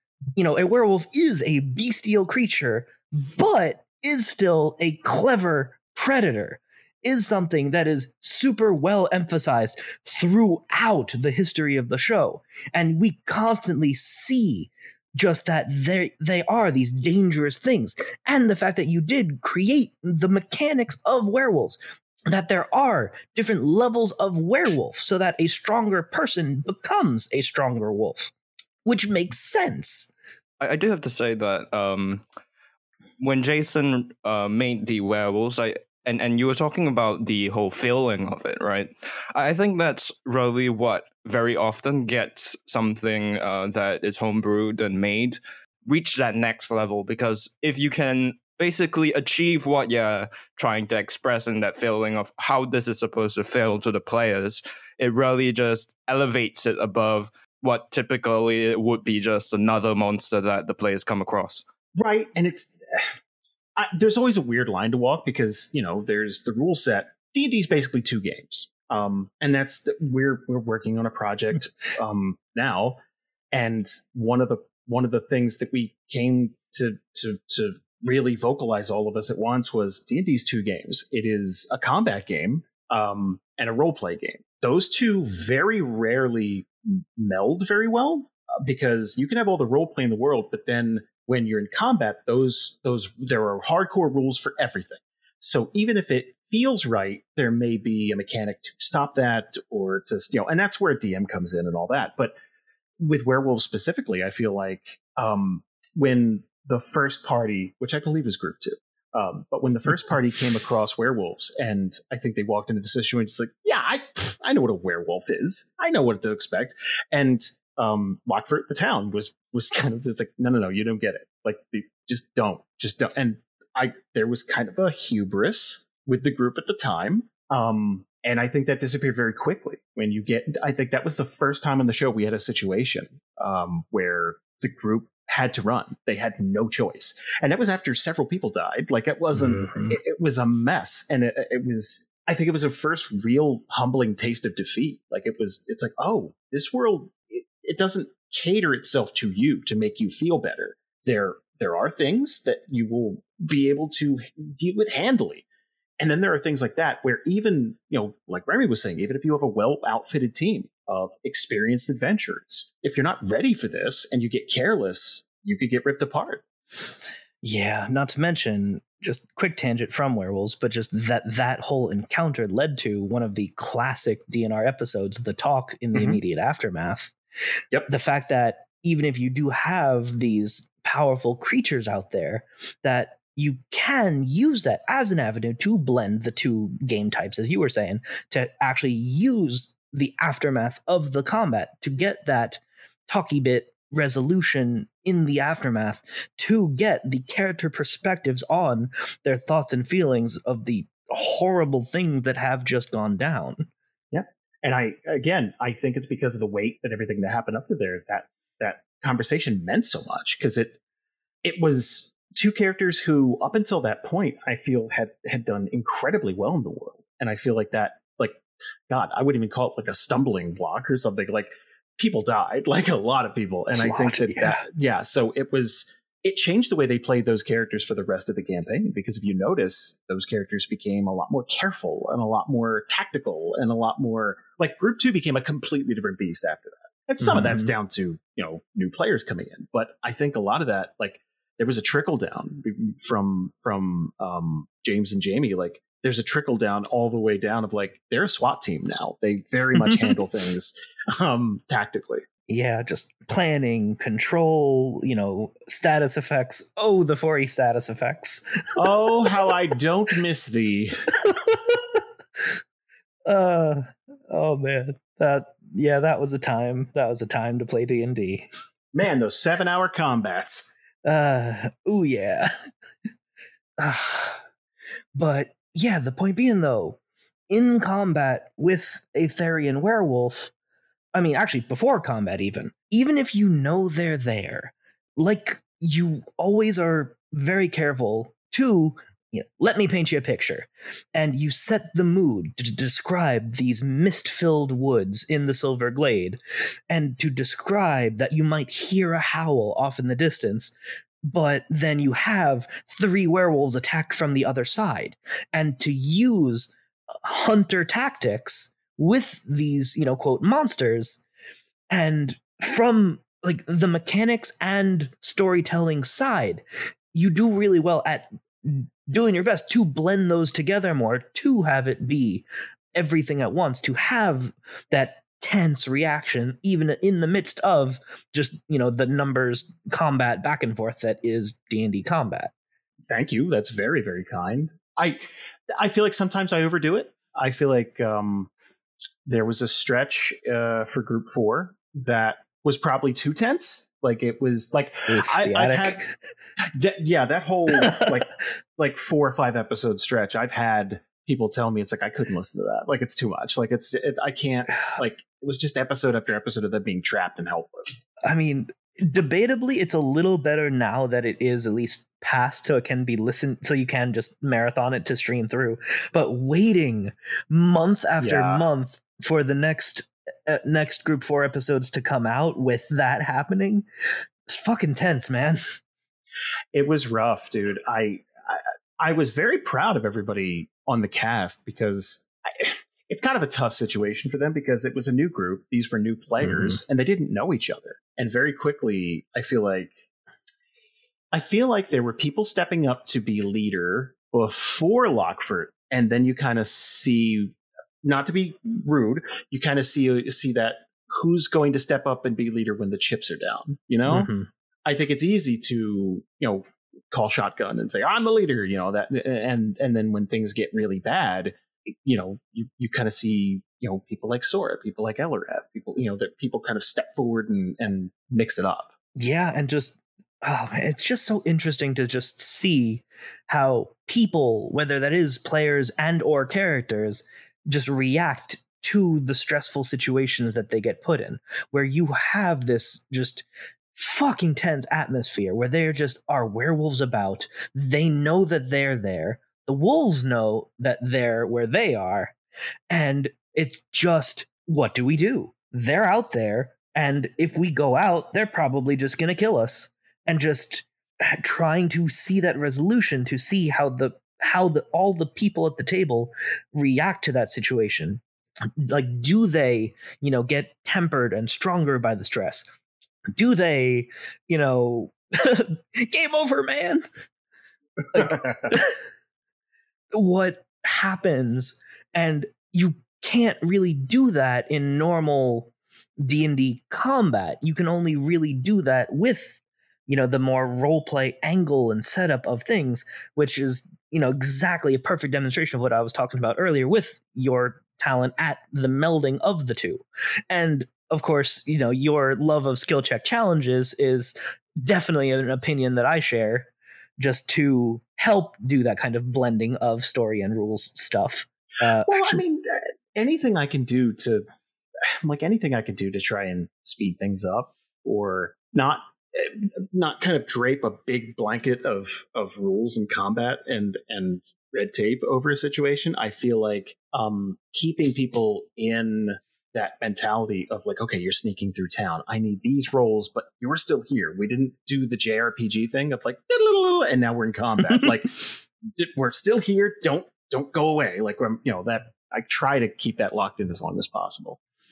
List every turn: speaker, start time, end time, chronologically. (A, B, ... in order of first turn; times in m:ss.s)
0:00.4-0:28.3 A
0:28.8-0:30.1 A
0:30.6-0:32.2 B
0:33.2-1:01.6 B
1:02.0-1:03.1 C
1:03.8-1:13.0 C
1:13.5-1:42.3 C
1:43.0-2:35.4 C
2:19.4-2:19.9 A
2:36.0-2:46.4 C
2:47.4-2:57.1 A
2:55.9-2:56.2 C
2:57.9-3:23.7 A
3:24.1-3:30.8 C
3:31.4-4:12.2 C
3:43.8-3:44.6 A
3:57.2-3:57.7 A
4:12.5-4:19.0 A
4:18.8-4:21.0 C
4:21.3-4:22.5 A
4:23.3-4:28.5 A
4:28.9-4:30.7 C
4:31.0-4:32.5 A
4:33.8-4:34.4 A
4:35.2-4:40.5 A
4:41.1-5:00.7 A
5:01.2-5:11.2 A
5:11.9-5:22.4 A
5:23.0-5:32.5 A
5:33.1-5:35.2 C
5:35.8-5:38.5 C
5:39.3-5:46.0 C
5:45.1-5:46.2 A
5:46.6-5:58.0 C
5:47.8-5:48.1 A
5:58.2-6:13.8 A
6:08.2-6:08.6 C
6:14.5-6:15.6 A
6:16.7-6:30.0 C
6:26.5-6:26.7 A
6:31.3-6:44.3 C
6:44.1-6:44.5 A
6:44.8-6:58.9 C
6:59.2-7:22.4 A
7:22.9-7:38.2 A
7:38.8-7:42.7 A
7:43.4-7:47.0 A
7:48.1-7:49.0 A
7:48.2-7:48.5 C
7:50.1-8:22.4 A
8:22.1-8:24.4 C
8:25.2-8:54.6 C